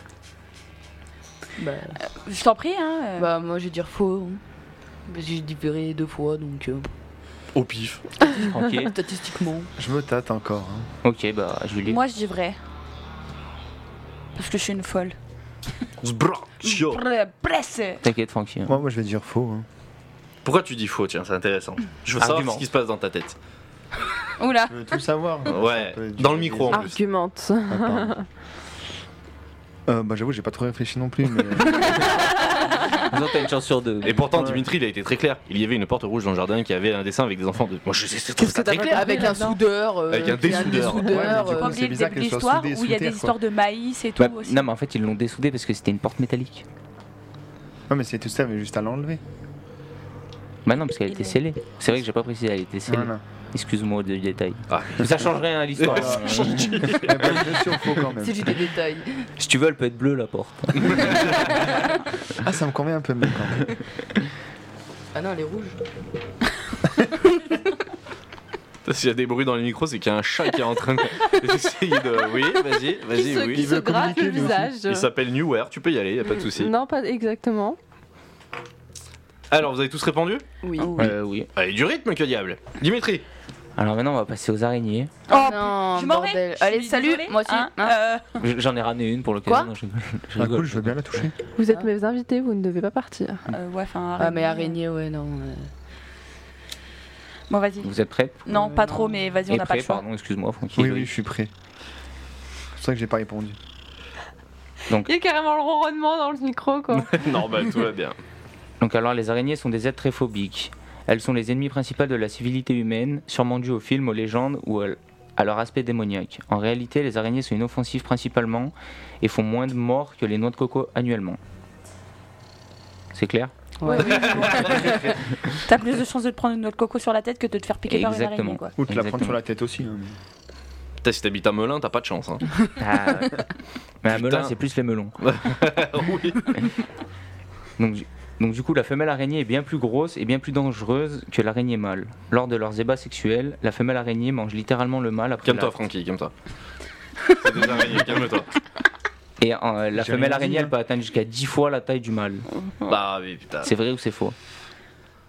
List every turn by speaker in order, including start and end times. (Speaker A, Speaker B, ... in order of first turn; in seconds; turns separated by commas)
Speaker A: 1.6-2.0, Speaker B: 2.1-3.3, Speaker A: 3.2-4.4, Speaker A: 5.1-6.9, Speaker C: 7.5-8.0, Speaker A: 8.2-9.7, Speaker D: 8.3-8.9, Speaker E: 9.8-10.9, Speaker D: 11.0-12.0, Speaker B: 11.9-12.6, Speaker B: 14.3-15.2, Speaker C: 16.0-17.0, Speaker B: 16.6-18.0, Speaker D: 18.0-18.8, Speaker E: 18.7-19.7, Speaker C: 20.4-23.4, Speaker D: 22.2-22.6, Speaker B: 24.4-24.8, Speaker E: 24.7-26.8, Speaker C: 25.5-27.0, Speaker F: 26.7-28.2, Speaker E: 27.7-28.1, Speaker E: 29.9-32.0, Speaker D: 33.1-34.2, Speaker C: 34.0-39.3, Speaker E: 34.4-34.6, Speaker F: 38.4-39.6, Speaker A: 38.9-41.8, Speaker C: 40.1-41.2, Speaker E: 40.2-43.4, Speaker B: 41.1-44.7, Speaker D: 44.2-46.6, Speaker E: 47.9-49.2, Speaker D: 50.7-57.0, Speaker B: 51.1-51.4, Speaker E: 52.9-53.2, Speaker C: 54.7-57.5, Speaker E: 55.9-58.6, Speaker A: 58.2-59.3, Speaker D: 59.4-61.3, Speaker E: 62.4-63.7, Speaker A: 65.1-65.8, Speaker C: 68.8-76.7, Speaker F: 73.1-75.1, Speaker E: 73.5-74.7, Speaker F: 76.3-77.8, Speaker C: 79.5-80.5, Speaker A: 80.6-81.1, Speaker B: 80.8-81.1, Speaker D: 81.0-81.5, Speaker C: 81.5-83.2, Speaker D: 83.8-85.1, Speaker B: 85.3-88.4, Speaker A: 85.3-88.0, Speaker D: 88.4-91.0, Speaker A: 89.5-89.7, Speaker E: 90.4-91.4, Speaker F: 91.6-93.5, Speaker B: 93.5-94.8, Speaker A: 94.2-95.7, Speaker B: 97.5-97.9, Speaker D: 97.8-98.5, Speaker B: 98.5-100.0, Speaker A: 98.5-99.2, Speaker D: 99.5-101.1, Speaker E: 100.8-101.5, Speaker E: 102.8-103.6, Speaker F: 105.0-107.2, Speaker C: 106.9-108.2, Speaker D: 108.8-121.4, Speaker D: 123.1-123.5, Speaker A: 123.8-124.9, Speaker B: 123.9-128.7, Speaker C: 124.0-125.2, Speaker D: 127.9-129.4, Speaker E: 128.8-130.2, Speaker C: 131.0-132.4, Speaker D: 132.8-133.5, Speaker D: 134.0-135.2, Speaker C: 134.1-134.5, Speaker C: 135.2-136.6, Speaker D: 137.8-145.8, Speaker C: 145.4-146.3, Speaker C: 147.4-148.5, Speaker D: 149.4-152.9, Speaker E: 149.9-150.7, Speaker C: 152.9-153.7, Speaker D: 153.6-154.3